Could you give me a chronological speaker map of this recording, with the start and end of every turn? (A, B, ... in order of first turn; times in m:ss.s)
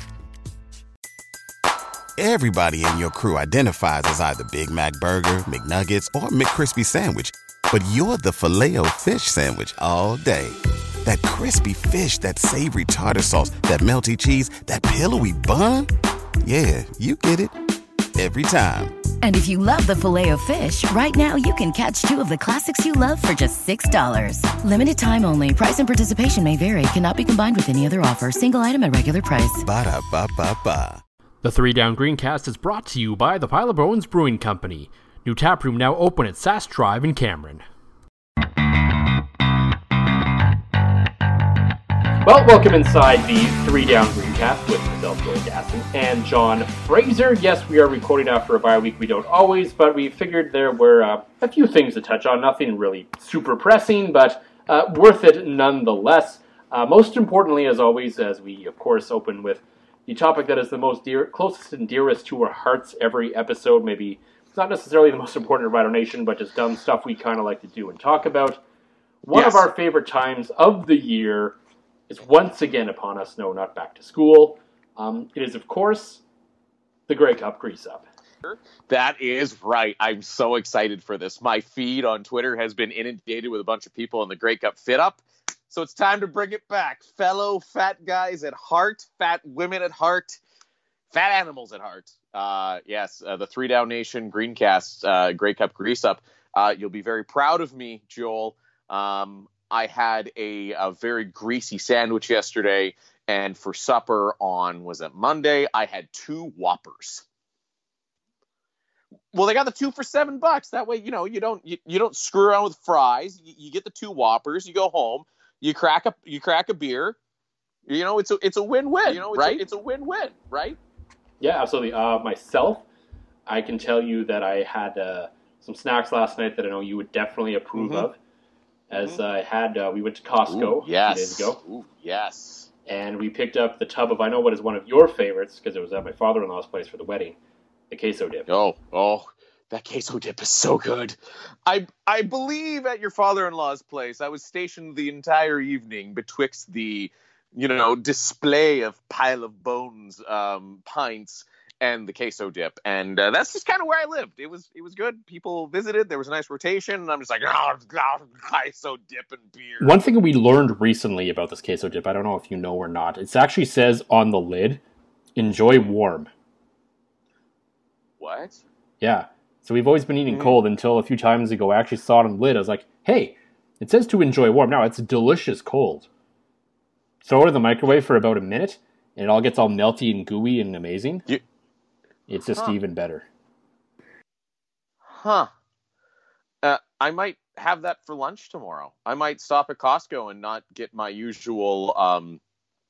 0:02.2-0:15.9 A
0:16.4-0:17.6 A
0:18.2-0:19.0 A
0:19.2-0:29.6 B
0:29.6-0:31.0 A
0:31.4-0:37.6 C
0:42.2-1:08.6 C
1:09.3-1:11.6 C
1:09.3-1:09.6 D
1:12.1-1:16.2 C
1:17.1-1:18.0 C
1:18.4-1:30.4 D
1:31.1-1:47.2 D
1:49.3-1:57.2 D
1:57.9-2:00.8 D
1:59.0-1:59.6 C
2:01.4-2:02.8 C
2:03.5-2:08.2 C
2:07.8-2:08.1 D
2:08.9-2:11.6 C
2:09.0-2:09.2 D
2:10.5-2:12.7 D
2:12.9-2:17.4 C
2:17.9-2:18.5 C
2:18.5-2:40.0 D
2:39.8-2:44.8 C
2:45.4-2:46.3 C
2:48.2-2:48.6 D
2:49.0-2:56.1 C
2:50.3-2:50.6 D
2:57.2-3:01.2 C
3:02.3-3:03.2 C
3:05.1-3:05.5 D
3:06.6-3:12.4 D